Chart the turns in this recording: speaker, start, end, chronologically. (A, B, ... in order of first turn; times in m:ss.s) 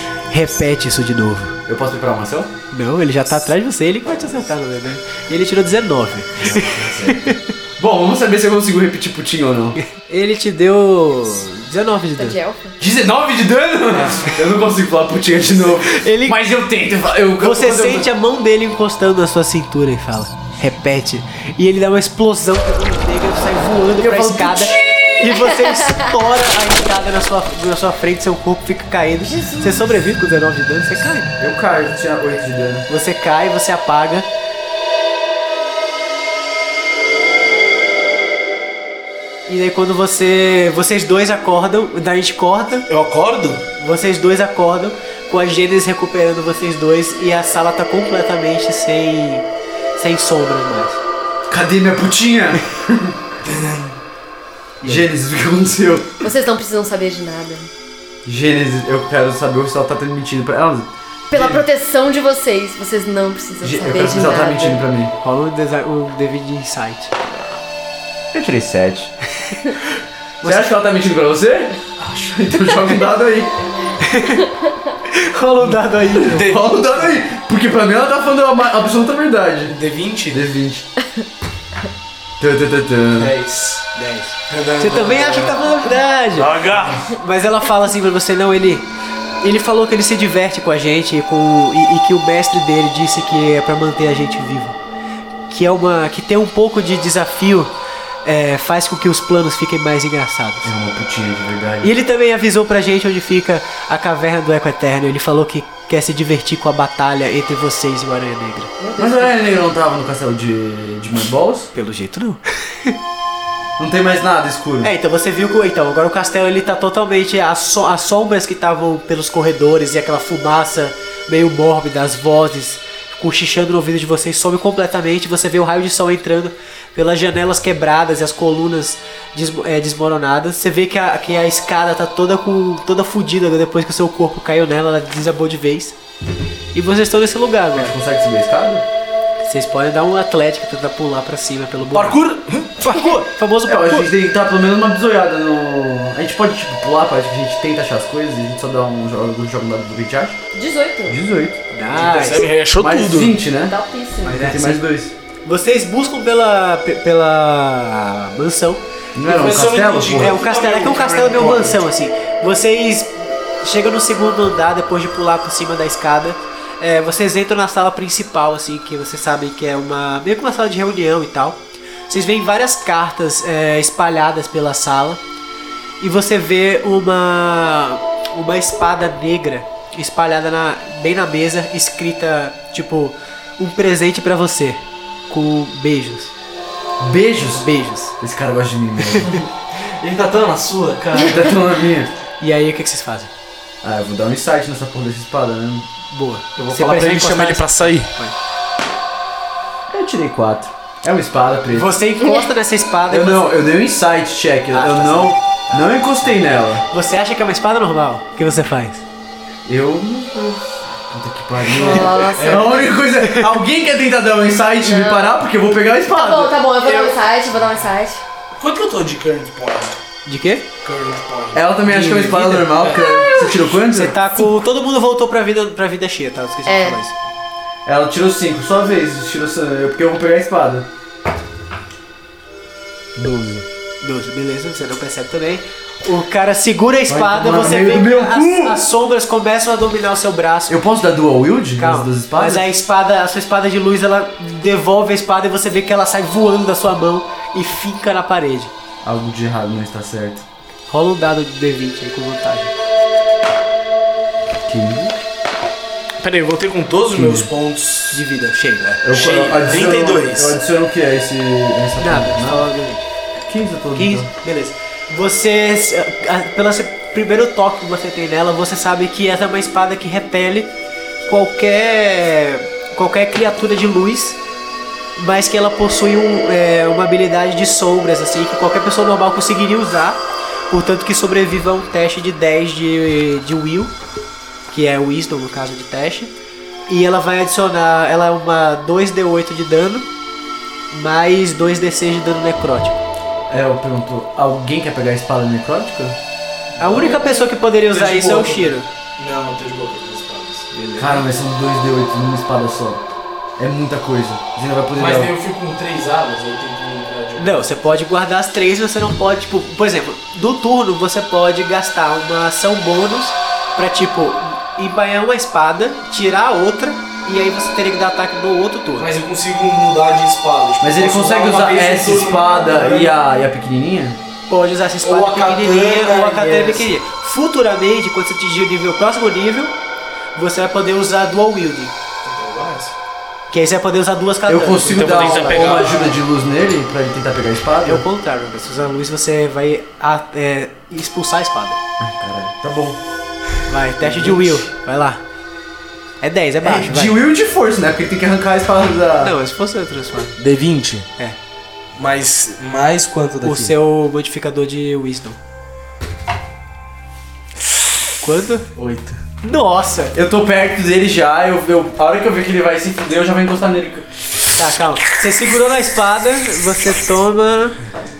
0:00.3-0:01.6 A
0:01.6-0:02.5 B
0:02.7-0:07.4 A
0:06.4-0:09.8 B
0:09.9-0:12.4 A
0:12.2-0:12.8 C
0:12.8-0:18.1 B
0:15.8-0:16.4 A
0:17.4-0:31.4 A
0:24.0-0:25.0 B
0:25.3-0:26.1 C
0:29.2-0:29.9 C
0:31.4-0:32.8 B
0:32.9-0:34.3 A
0:39.5-0:42.9 A
0:42.9-0:43.7 D
0:43.8-0:51.0 A
0:51.5-0:53.2 B
0:53.4-0:54.0 D
0:54.8-0:55.1 A
0:54.8-0:56.1 B
0:56.2-0:57.7 C
0:58.2-1:01.6 B
1:01.3-1:04.8 C
1:03.6-1:05.1 B
1:05.2-1:07.5 A
1:08.3-1:09.1 B
1:10.4-1:10.7 A
1:10.4-1:13.6 B
1:14.0-1:14.4 A
1:15.0-1:16.6 A
1:16.1-1:19.8 B
1:16.3-1:17.1 D
1:19.7-1:20.4 D
1:20.3-1:20.9 B
1:22.4-1:23.3 B
1:23.2-1:23.9 D
1:23.9-1:28.9 A
1:24.5-1:25.6 D
1:26.3-1:27.1 D
1:29.4-1:34.8 A
1:35.5-1:37.7 A
1:38.2-1:40.7 A
1:40.6-1:41.9 B
1:41.8-1:48.8 A
1:48.8-1:49.3 C
1:49.0-1:51.7 B
1:51.7-1:53.0 A
1:53.8-1:54.9 B
1:54.8-2:16.0 A
2:16.7-2:18.0 A
2:17.7-2:18.8 B
2:19.4-2:22.2 A
2:21.9-2:23.0 D
2:22.8-2:24.1 A
2:23.6-2:30.4 B
2:30.5-2:31.2 C
2:31.1-2:31.6 B
2:31.7-2:32.5 A
2:31.9-2:33.4 D
2:32.8-2:35.1 B
2:33.6-2:34.4 C
2:34.2-2:34.8 A
2:35.4-2:38.8 A
2:39.1-2:40.4 B
2:39.2-2:41.8 D
2:40.1-2:55.2 A
2:56.0-3:06.3 A
3:07.0-3:07.7 B
3:07.5-3:08.2 A
3:08.2-3:09.5 B
3:09.1-3:09.4 A
3:09.8-3:11.5 D
3:11.1-3:12.1 B
3:12.4-3:13.3 A
3:13.8-3:15.9 B
3:16.1-3:18.4 A
3:16.6-3:18.1 D
3:19.9-3:22.0 B
3:21.7-3:23.6 A
3:22.2-3:22.5 C
3:23.1-3:26.8 B
3:24.7-3:29.0 A
3:29.6-3:36.6 B
3:31.7-3:32.9 C
3:32.0-3:32.9 D
3:33.2-3:33.5 A
3:34.8-3:35.4 C
3:36.1-3:38.2 C
3:38.6-3:40.0 D
3:40.2-3:40.7 A
3:40.8-3:43.1 D
3:41.5-3:44.2 B
3:41.8-3:42.9 A
3:42.9-3:43.7 C
3:43.8-3:47.2 A
3:46.6-3:47.0 C
3:47.8-3:50.9 B
3:53.2-3:53.6 B
3:54.0-4:00.8 A
3:57.1-3:58.8 B
4:00.7-4:02.7 B
4:01.8-4:08.7 A
4:09.0-4:10.4 B
4:10.9-4:12.7 A
4:14.7-4:15.1 B
4:16.2-4:18.2 D
4:17.1-4:17.5 B
4:18.1-4:19.0 A
4:19.0-4:22.6 B
4:19.1-4:20.6 D
4:22.0-4:23.1 A
4:23.4-4:24.3 B
4:23.9-4:30.7 A
4:31.2-4:34.4 A
4:35.2-4:43.9 A
4:44.7-4:46.3 A
4:46.9-4:50.1 A
4:50.9-4:53.0 A
4:53.5-4:56.2 B
4:56.8-5:00.7 D
4:56.8-4:58.9 A
5:00.7-5:01.3 A
5:01.0-5:05.3 B
5:04.9-5:07.9 D
5:07.4-5:19.1 A
5:19.0-5:23.2 D
5:20.8-5:24.2 B
5:24.5-5:29.7 A
5:25.0-5:27.0 D
5:30.3-5:32.0 A
5:32.2-5:32.9 D
5:33.5-5:35.9 A
5:34.5-5:38.0 B
5:34.9-5:36.2 D
5:37.8-5:41.8 A
5:42.0-5:43.0 B
5:43.7-5:45.2 A
5:44.0-5:44.6 D
5:46.2-5:47.2 A
5:46.6-5:49.4 B
5:49.2-5:50.4 A
5:50.4-5:51.2 D
5:51.9-5:53.7 D
5:53.4-5:55.4 A
5:58.2-5:58.7 A
5:58.8-5:59.2 D
5:59.4-6:00.1 A
6:00.1-6:04.1 B
6:04.5-6:07.8 A